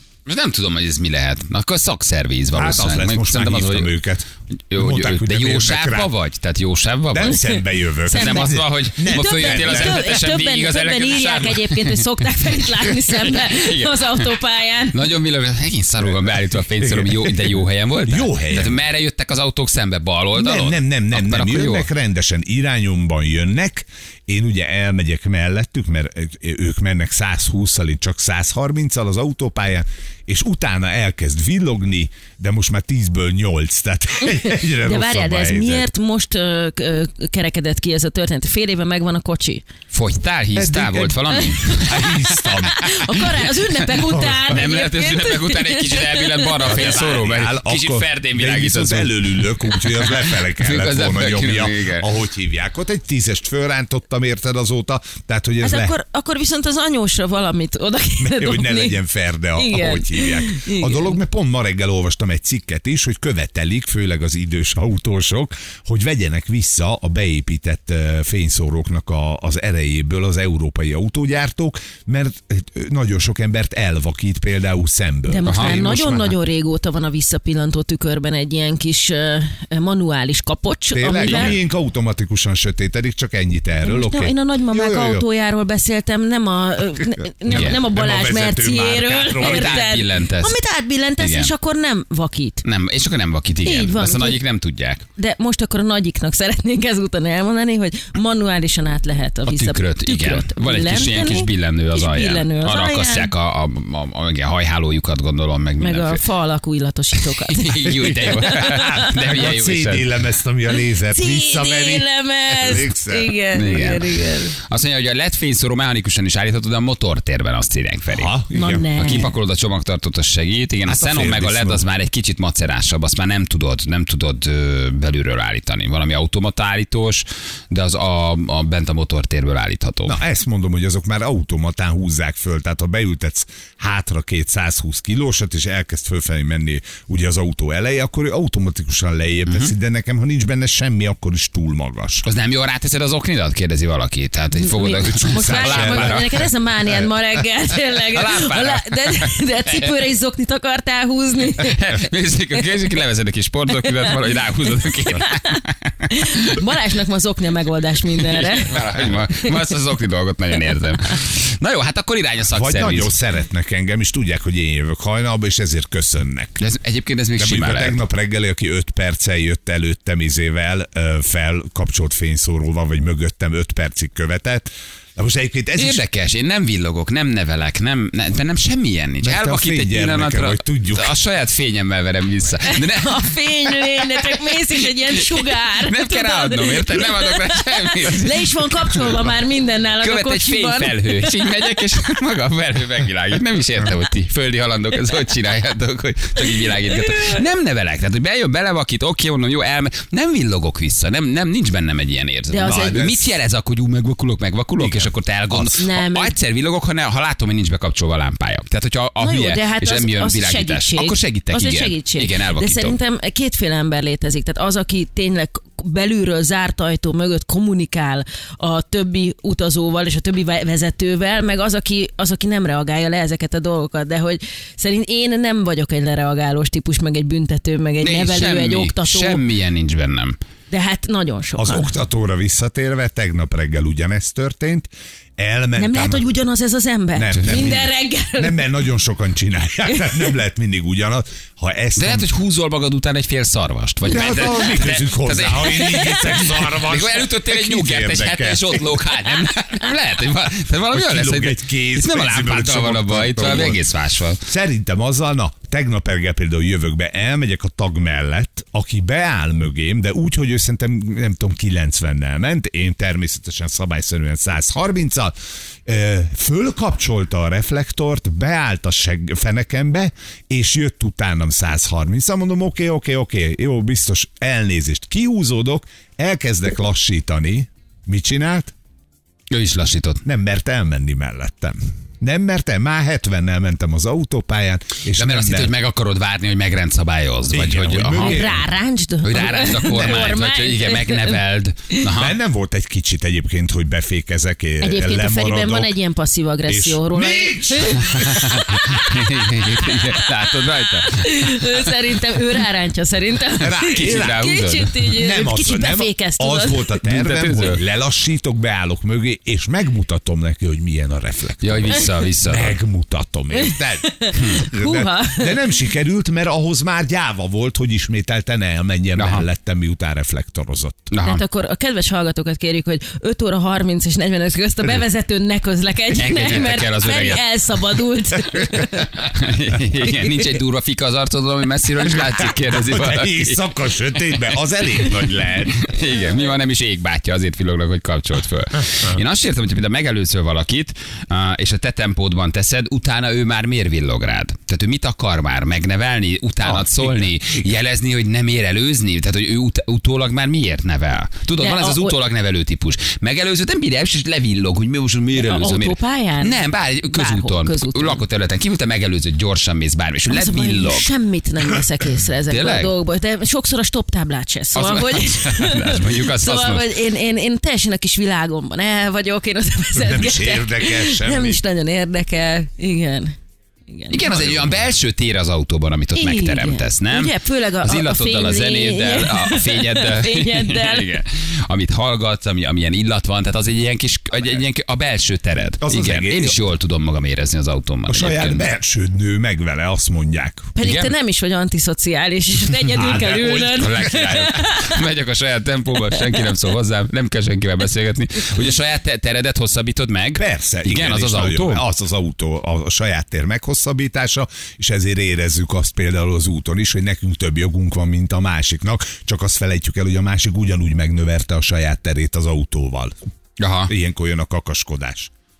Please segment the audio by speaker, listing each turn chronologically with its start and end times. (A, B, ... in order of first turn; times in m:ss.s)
0:00.2-0:03.9 A
0:02.5-0:06.1 B
0:04.7-0:07.5 A
0:07.1-0:10.1 B
0:08.0-0:15.0 C
0:08.1-0:14.3 A
0:14.9-0:21.9 A
0:16.8-0:18.8 B
0:20.4-0:35.9 B
0:34.3-0:39.6 C
0:39.9-0:42.0 A
0:40.5-0:44.6 B
0:41.3-0:46.7 C
0:44.5-0:52.1 A
0:46.6-0:55.9 B
0:55.6-0:59.0 C
0:58.2-1:16.4 B
0:59.6-1:01.2 C
1:15.3-1:21.6 C
1:15.4-1:15.8 A
1:20.9-1:25.2 B
1:21.2-1:21.6 A
1:23.8-1:32.6 C
1:27.4-1:29.9 B
1:27.5-1:27.8 A
1:29.4-1:30.6 A
1:31.2-1:31.5 A
1:32.6-1:35.0 A
1:33.6-1:34.4 C
1:35.2-1:43.3 C
1:39.5-1:46.2 A
1:45.8-1:49.1 C
1:47.5-1:50.1 A
1:48.0-1:53.4 B
1:51.1-1:54.5 C
1:53.5-1:58.3 A
1:58.1-1:59.3 B
1:58.5-1:59.3 C
1:59.0-2:10.2 A
2:00.8-2:01.8 B
2:10.0-2:22.2 B
2:22.2-2:26.4 A
2:24.6-2:32.6 C
2:25.0-2:26.5 B
2:28.1-2:29.9 A
2:31.6-2:36.6 A
2:33.8-2:34.2 C
2:34.7-2:39.6 C
2:38.2-2:43.1 A
2:42.5-2:46.6 B
2:46.6-2:48.0 A
2:47.4-2:56.0 B
2:55.8-3:04.5 A
2:59.2-3:01.1 B
3:02.6-3:11.5 C
3:05.2-3:09.3 A
3:10.0-3:33.0 A
3:16.6-3:17.4 C
3:22.5-3:23.0 C
3:22.6-3:23.3 B
3:24.8-3:25.8 B
3:25.8-3:26.3 C
3:29.2-3:49.4 C
3:48.0-3:50.4 A
3:50.7-3:51.9 C
3:51.6-3:56.2 B
3:55.8-3:58.6 C
3:57.2-4:02.3 B
3:59.9-4:00.3 C
4:02.0-4:14.4 A
4:04.0-4:09.2 B
4:10.9-4:13.8 B
4:14.4-4:25.3 B
4:25.8-4:38.7 B
4:39.5-4:40.2 A
4:40.2-4:45.7 B
4:45.2-4:48.5 A
4:47.5-4:48.6 B
4:48.2-4:51.4 C
4:49.2-4:52.4 A
4:50.1-4:50.3 B
4:52.1-4:55.9 B
4:54.8-5:07.0 C
4:56.6-4:58.6 B
4:58.1-5:01.9 A
5:03.6-5:04.4 B
5:03.8-5:05.1 A
5:05.1-5:21.1 B
5:07.0-5:07.8 A
5:11.6-5:12.7 A
5:13.5-5:15.6 C
5:19.1-5:19.4 A
5:21.1-5:21.4 A
5:21.2-5:29.1 C
5:26.2-5:27.6 A
5:29.2-5:33.6 A
5:30.0-5:30.4 C
5:32.1-5:35.8 B
5:35.0-6:01.1 A
5:51.6-5:52.1 C
5:55.3-5:58.2 C
6:00.3-6:13.4 C
6:02.5-6:02.9 A
6:04.7-6:06.9 A
6:10.0-6:11.6 B
6:13.9-6:14.4 C
6:14.1-6:28.6 A
6:14.3-6:14.8 B
6:16.1-6:21.2 C
6:25.8-6:26.6 B
6:28.1-6:30.7 B
6:30.7-6:35.0 C
6:30.8-6:31.1 A
6:32.9-6:41.8 A
6:33.0-6:34.0 B
6:36.1-6:36.4 C
6:40.4-6:53.2 B
6:53.6-6:53.9 A
6:53.9-6:55.3 B